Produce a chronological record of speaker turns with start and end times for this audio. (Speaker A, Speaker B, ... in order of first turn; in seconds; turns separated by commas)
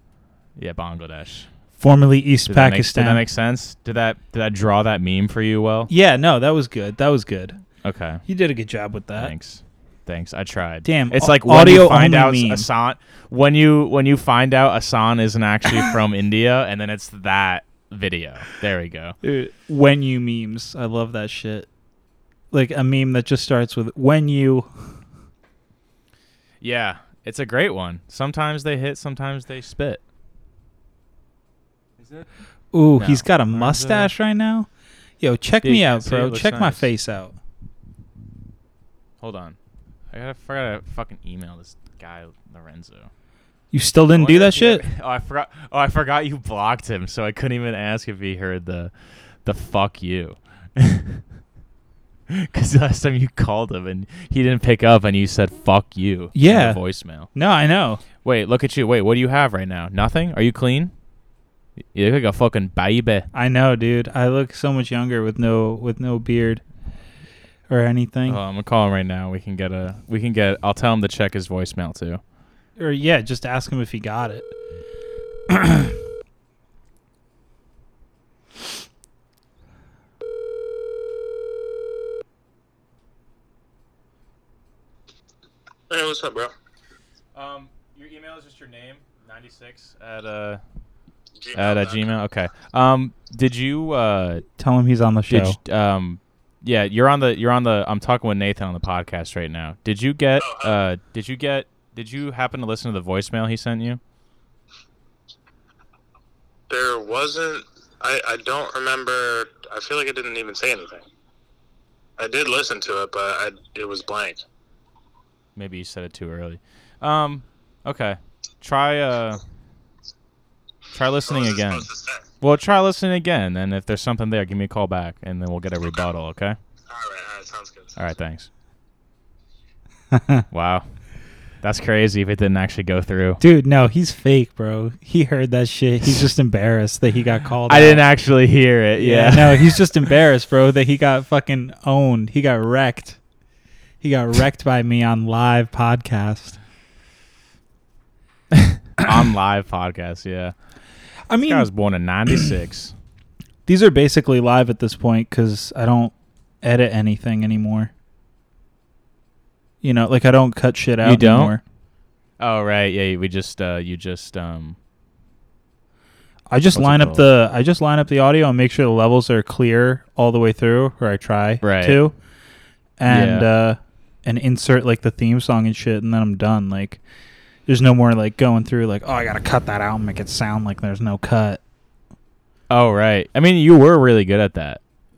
Speaker A: 0.6-1.5, Speaker B: 1.8-3.2, Speaker A: 2.5-5.9, Speaker B: 5.9-7.6, Speaker A: 7.8-8.2, Speaker B: 8.3-9.3, Speaker A: 9.2-19.2, Speaker B: 10.8-12.7, Speaker B: 19.2-21.7, Speaker B: 22.5-24.7, Speaker A: 26.6-30.0, Speaker A: 32.0-32.3, Speaker B: 32.7-34.7, Speaker A: 33.0-34.1, Speaker B: 35.2-37.4, Speaker A: 35.6-36.9, Speaker A: 39.2-39.6, Speaker A: 40.1-43.1, Speaker B: 43.7-44.9, Speaker A: 44.1-48.9, Speaker A: 49.4-51.2, Speaker A: 52.3-57.3, Speaker B: 56.3-56.8, Speaker B: 57.3-58.0, Speaker A: 58.2-60.9, Speaker A: 61.9-63.3, Speaker B: 63.3-66.6, Speaker B: 67.7-68.4, Speaker A: 68.3-72.2, Speaker B: 72.8-74.5, Speaker B: 75.5-75.9, Speaker C: 85.9-86.5, Speaker A: 87.3-90.6, Speaker C: 91.4-92.2, Speaker A: 91.5-94.5, Speaker B: 94.6-95.6, Speaker A: 95.3-104.0, Speaker C: 100.4-100.8, Speaker C: 106.7-111.0, Speaker C: 112.2-114.4, Speaker A: 115.6-119.4, Speaker A: 120.9-121.9, Speaker C: 121.3-122.3, Speaker A: 122.4-126.6, Speaker C: 126.9-128.0, Speaker A: 128.0-128.5, Speaker B: 130.1-130.5, Speaker A: 130.5-130.9, Speaker A: 131.6-133.4, Speaker B: 133.4-138.1, Speaker A: 137.7-140.1, Speaker B: 139.0-143.2, Speaker B: 144.0-146.6, Speaker A: 148.5-150.5, Speaker B: 151.3-151.7, Speaker A: 151.5-152.9, Speaker B: 153.7-157.9, Speaker B: 159.8-161.6, Speaker A: 161.0-161.6, Speaker A: 162.4-164.8, Speaker B: 166.5-172.2, Speaker A: 166.7-167.3, Speaker A: 171.6-172.0, Speaker B: 173.0-177.0, Speaker A: 173.1-173.5, Speaker B: 177.7-181.6, Speaker A: 182.7-184.8